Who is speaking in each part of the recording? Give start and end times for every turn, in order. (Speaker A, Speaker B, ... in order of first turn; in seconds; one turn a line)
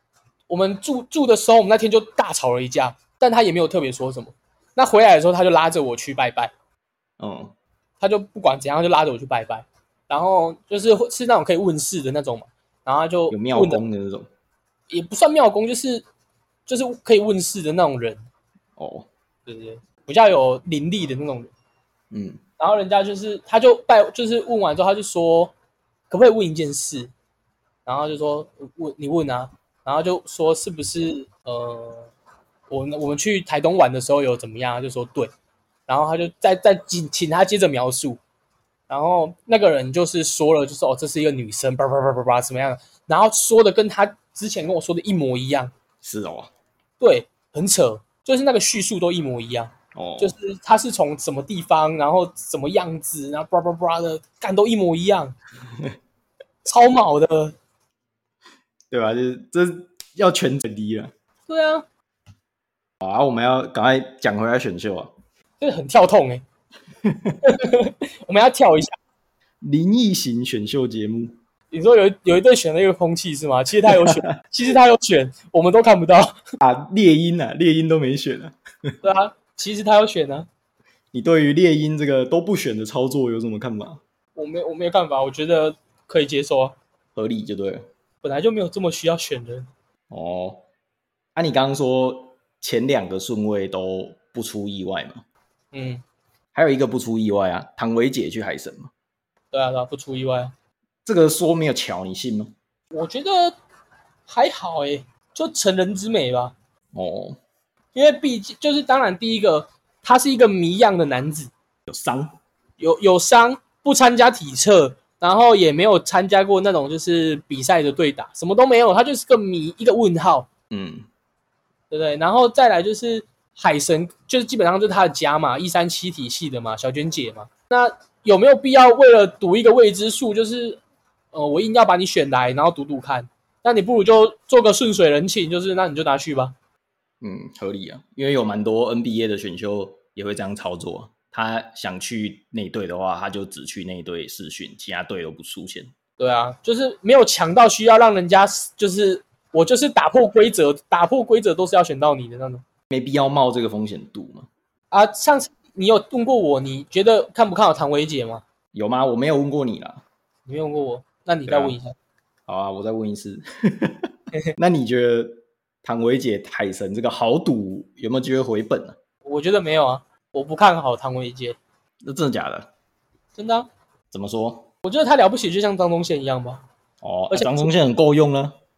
Speaker A: 0.5-6.5
Speaker B: 7.2-7.5
Speaker A: 8.0-13.8
Speaker B: 13.3-14.3
Speaker A: 14.9-16.0
Speaker A: 16.7-18.2
Speaker B: 18.8-19.1
Speaker A: 19.5-21.5
Speaker B: 22.1-22.4
Speaker A: 22.6-25.5
Speaker A: 26.1-27.1
Speaker A: 27.9-32.1
Speaker A: 32.7-35.3
Speaker A: 35.9-38.2
Speaker A: 38.9-45.7
Speaker B: 46.0-46.5
Speaker A: 47.0-55.4
Speaker B: 50.0-50.4
Speaker A: 56.6-57.5
Speaker B: 58.9-61.1
Speaker A: 61.5-61.9
Speaker B: 63.0-65.1
Speaker A: 65.6-66.4
Speaker B: 67.0-67.4
Speaker A: 67.4-69.0
Speaker B: 69.6-71.3
Speaker A: 71.7-76.4
Speaker B: 73.9-74.4
Speaker B: 76.6-78.9
Speaker A: 79.0-80.5
Speaker B: 81.1-84.0
Speaker A: 84.3-86.8
Speaker B: 87.2-87.9
Speaker A: 88.2-89.7
Speaker B: 90.1-90.6
Speaker B: 91.4-95.2
Speaker A: 95.7-96.0
Speaker B: 96.5-98.9
Speaker A: 99.5-100.5
Speaker B: 101.0-102.5
Speaker A: 102.9-103.6
Speaker A: 104.3-106.5
Speaker B: 107.0-107.4
Speaker A: 108.0-111.5
Speaker B: 111.9-112.3
Speaker A: 112.8-120.5
Speaker B: 120.7-121.1
Speaker A: 121.9-130.8
Speaker A: 131.3-136.6
Speaker B: 137.2-145.9
Speaker A: 146.2-152.6
Speaker B: 152.9-154.5
Speaker A: 154.9-158.4
Speaker B: 158.7-160.0
Speaker A: 160.5-161.9
Speaker B: 161.5-161.8
Speaker B: 162.5-169.0
Speaker A: 169.2-171.6
Speaker B: 172.0-172.7
Speaker A: 173.3-173.7
Speaker B: 174.1-174.7
Speaker A: 174.8-176.6
Speaker B: 177.0-178.6
Speaker A: 177.3-177.7